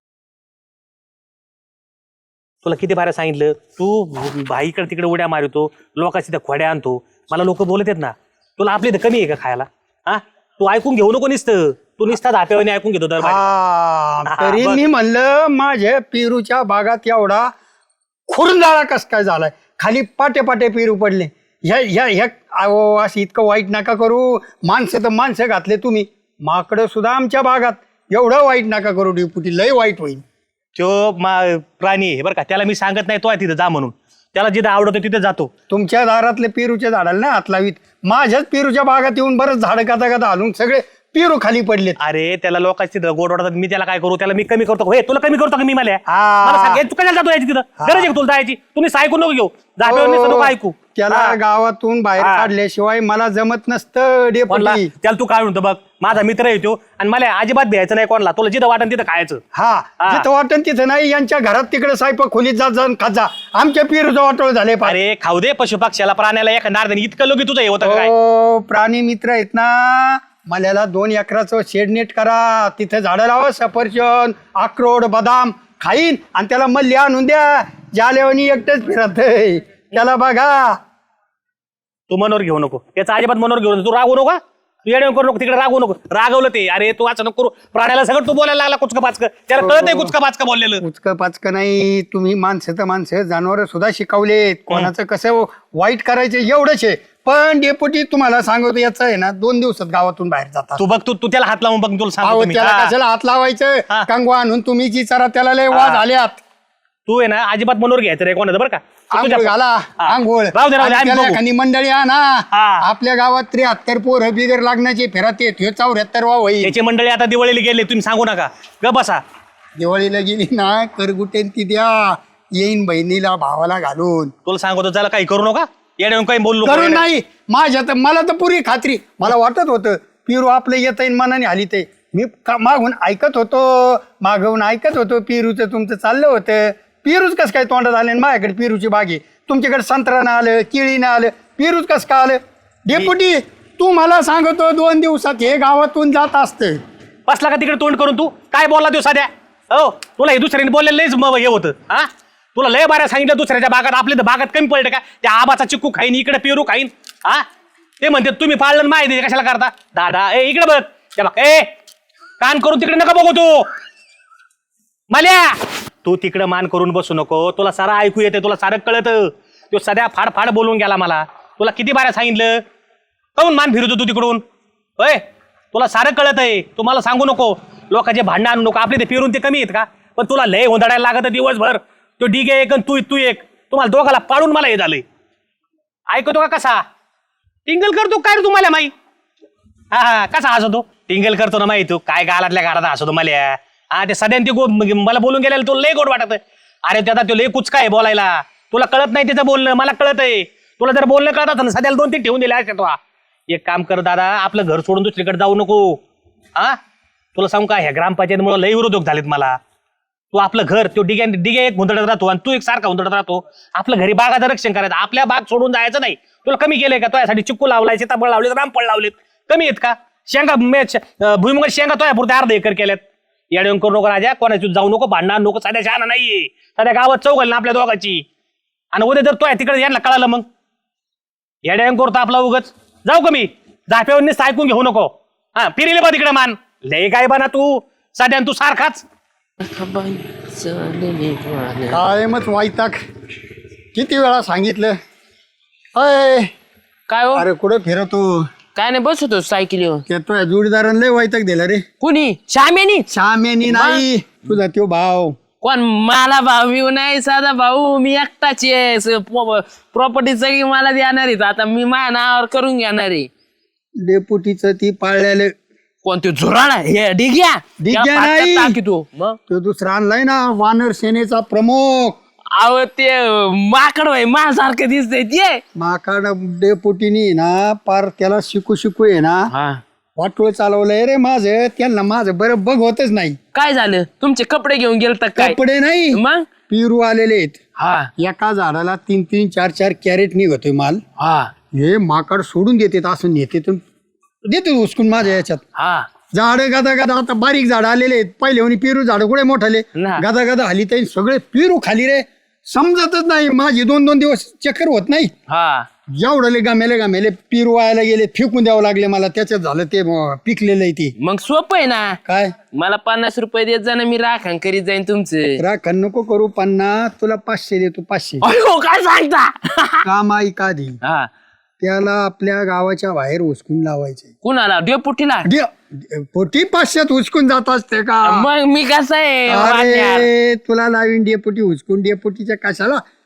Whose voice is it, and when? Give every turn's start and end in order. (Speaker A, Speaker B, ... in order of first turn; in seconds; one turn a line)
Speaker A: 2.6-13.5
Speaker B: 13.2-17.5
Speaker A: 14.3-14.8
Speaker B: 18.3-30.2
Speaker A: 30.8-35.5
Speaker B: 35.7-42.0
Speaker A: 42.0-51.4
Speaker B: 46.1-46.8
Speaker B: 47.8-48.1
Speaker B: 49.8-54.9
Speaker A: 52.2-52.5
Speaker A: 54.5-59.4
Speaker B: 59.5-65.0
Speaker A: 64.8-68.1
Speaker B: 67.8-80.8
Speaker A: 82.1-90.8
Speaker B: 89.6-90.1
Speaker B: 90.8-100.9
Speaker A: 100.8-102.9
Speaker B: 102.2-106.4
Speaker A: 105.7-106.0
Speaker A: 107.1-111.4
Speaker B: 109.1-116.7
Speaker A: 112.5-112.8
Speaker A: 116.6-119.2
Speaker B: 119.8-124.3
Speaker A: 124.5-127.1
Speaker B: 126.6-146.8
Speaker A: 147.3-157.4
Speaker A: 158.0-161.7
Speaker A: 162.4-163.7
Speaker A: 165.1-172.6
Speaker A: 173.4-174.4
Speaker A: 175.0-185.0
Speaker A: 186.1-186.8
Speaker A: 187.7-188.9
Speaker A: 189.9-203.0
Speaker A: 203.5-206.0
Speaker A: 207.3-209.6
Speaker A: 210.3-228.2
Speaker A: 228.9-230.4
Speaker A: 231.6-239.0
Speaker C: 239.6-242.0
Speaker B: 241.9-243.0
Speaker B: 243.9-244.9
Speaker B: 245.9-246.5
Speaker C: 247.1-247.4
Speaker B: 247.3-248.4
Speaker C: 248.7-250.0
Speaker B: 250.1-251.8
Speaker C: 252.0-253.1
Speaker B: 253.1-255.3
Speaker C: 253.7-254.0
Speaker C: 255.6-263.3
Speaker B: 264.0-265.5
Speaker C: 266.0-269.4
Speaker B: 267.8-268.8
Speaker B: 269.5-272.2
Speaker C: 272.6-275.6
Speaker B: 275.8-279.5
Speaker C: 279.5-279.8
Speaker B: 280.2-283.4
Speaker C: 283.5-285.6
Speaker B: 285.4-287.6
Speaker C: 286.1-286.5
Speaker C: 287.8-288.1
Speaker B: 288.2-291.0
Speaker C: 291.2-291.5
Speaker B: 291.7-293.8
Speaker B: 294.4-295.6
Speaker C: 295.8-296.1
Speaker B: 296.3-305.3
Speaker C: 299.9-300.2
Speaker C: 305.5-305.9
Speaker B: 306.1-311.1
Speaker C: 311.2-312.2
Speaker B: 312.2-312.5
Speaker C: 312.7-315.6
Speaker B: 315.6-318.4
Speaker C: 318.4-320.1
Speaker B: 320.0-321.0
Speaker C: 321.0-321.3
Speaker B: 321.8-324.3
Speaker C: 324.4-325.5
Speaker B: 325.4-328.5
Speaker C: 328.2-330.3
Speaker B: 329.5-333.0